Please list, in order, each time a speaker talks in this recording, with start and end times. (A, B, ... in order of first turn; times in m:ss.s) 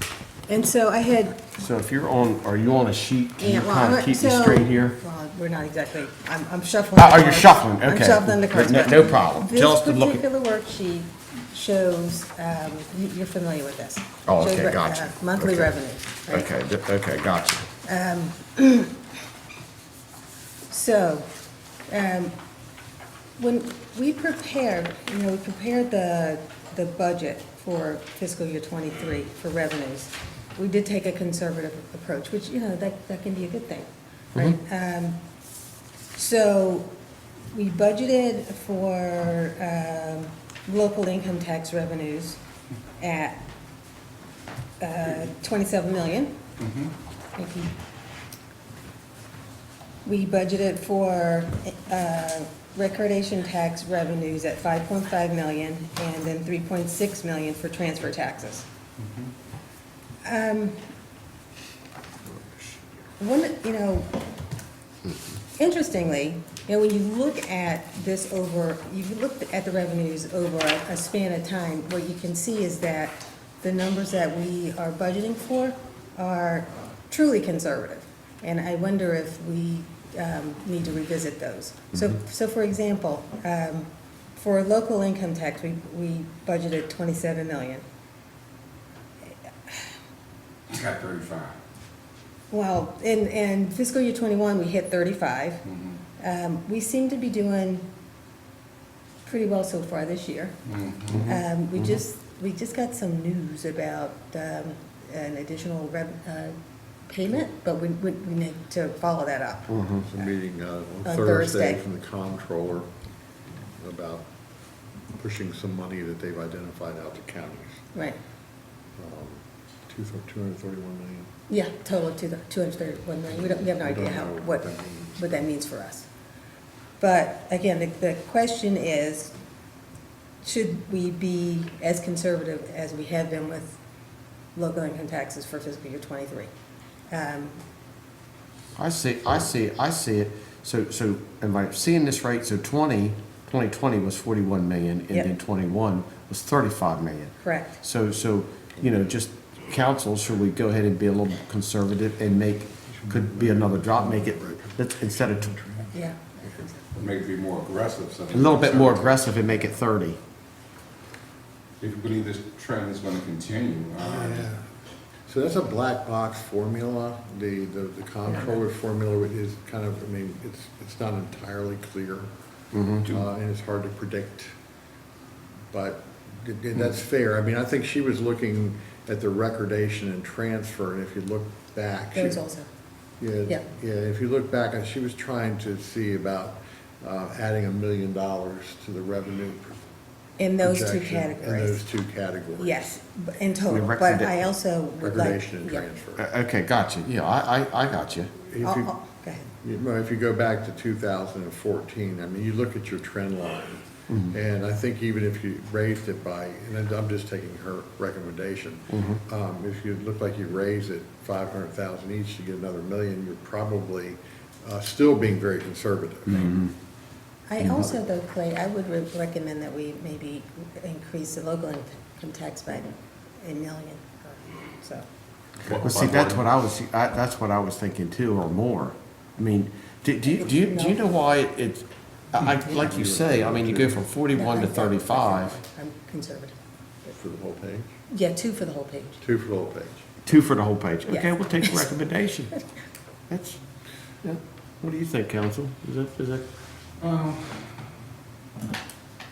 0:00.5-0:01.4 A
0:01.5-0:05.0 B
0:03.4-0:16.5 A
0:07.0-0:10.2 B
0:14.2-0:15.7 B
0:16.3-0:17.7 B
0:17.8-0:19.0 A
0:20.7-0:21.3 A
0:21.9-0:22.3 A
0:23.4-0:35.2 A
0:36.1-0:36.9 A
0:37.5-0:42.4 A
0:43.0-0:43.4 A
0:44.8-0:46.4 A
0:46.6-0:46.9 C
0:47.4-0:47.7 A
0:50.0-0:58.6 A
0:59.0-0:59.3 C
1:00.2-1:00.8 A
1:03.2-1:04.1 A
1:05.6-1:27.8 A
1:29.3-1:29.9 A
1:30.7-1:31.6 C
1:32.5-1:35.6 A
1:35.7-1:36.0 C
1:36.2-1:37.9 A
1:39.2-1:40.6 A
1:40.6-1:41.3 C
1:41.1-1:46.6 A
1:41.1-1:42.0 B
1:47.1-1:50.3 A
1:49.7-1:50.1 B
1:50.0-1:52.9 D
1:51.0-1:51.8 A
1:53.8-1:54.3 D
1:55.2-1:57.8 D
1:59.0-2:01.3 D
2:01.5-2:06.1 A
2:03.3-2:05.5 D
2:07.0-2:09.3 A
2:10.4-2:13.8 A
2:14.5-2:16.5 A
2:17.1-2:17.6 A
2:18.8-2:35.6 B
2:27.4-2:27.8 A
2:32.9-2:36.0 D
2:35.9-2:36.8 A
2:36.9-2:39.2 C
2:38.3-2:40.2 B
2:41.8-2:44.5 C
2:44.0-2:44.6 D
2:45.3-2:52.3 D
2:52.7-2:53.0 B
2:53.0-2:54.5 D
2:55.7-3:02.4 D
3:02.1-3:02.7 A
3:03.2-3:09.8 D
3:10.4-3:11.8 A
3:10.6-3:12.8 D
3:12.6-3:15.9 A
3:13.7-3:14.3 B
3:15.0-3:16.2 D
3:16.2-3:18.3 B
3:18.5-3:18.9 D
3:18.6-3:19.4 A
3:19.5-3:36.7 D
3:24.1-3:24.3 B
3:36.4-3:36.7 B
3:37.5-3:45.0 A
3:37.6-3:37.9 B
3:45.6-3:46.4 C
3:45.8-3:55.6 B
3:50.3-3:51.0 A
3:52.6-3:53.9 D
3:54.3-3:56.6 A
3:57.1-3:57.9 D
3:58.1-3:59.2 A
3:59.2-4:00.1 D
4:00.2-4:02.5 B
4:01.1-4:01.8 A
4:03.3-4:03.6 B
4:04.2-4:06.4 B
4:07.0-4:07.8 C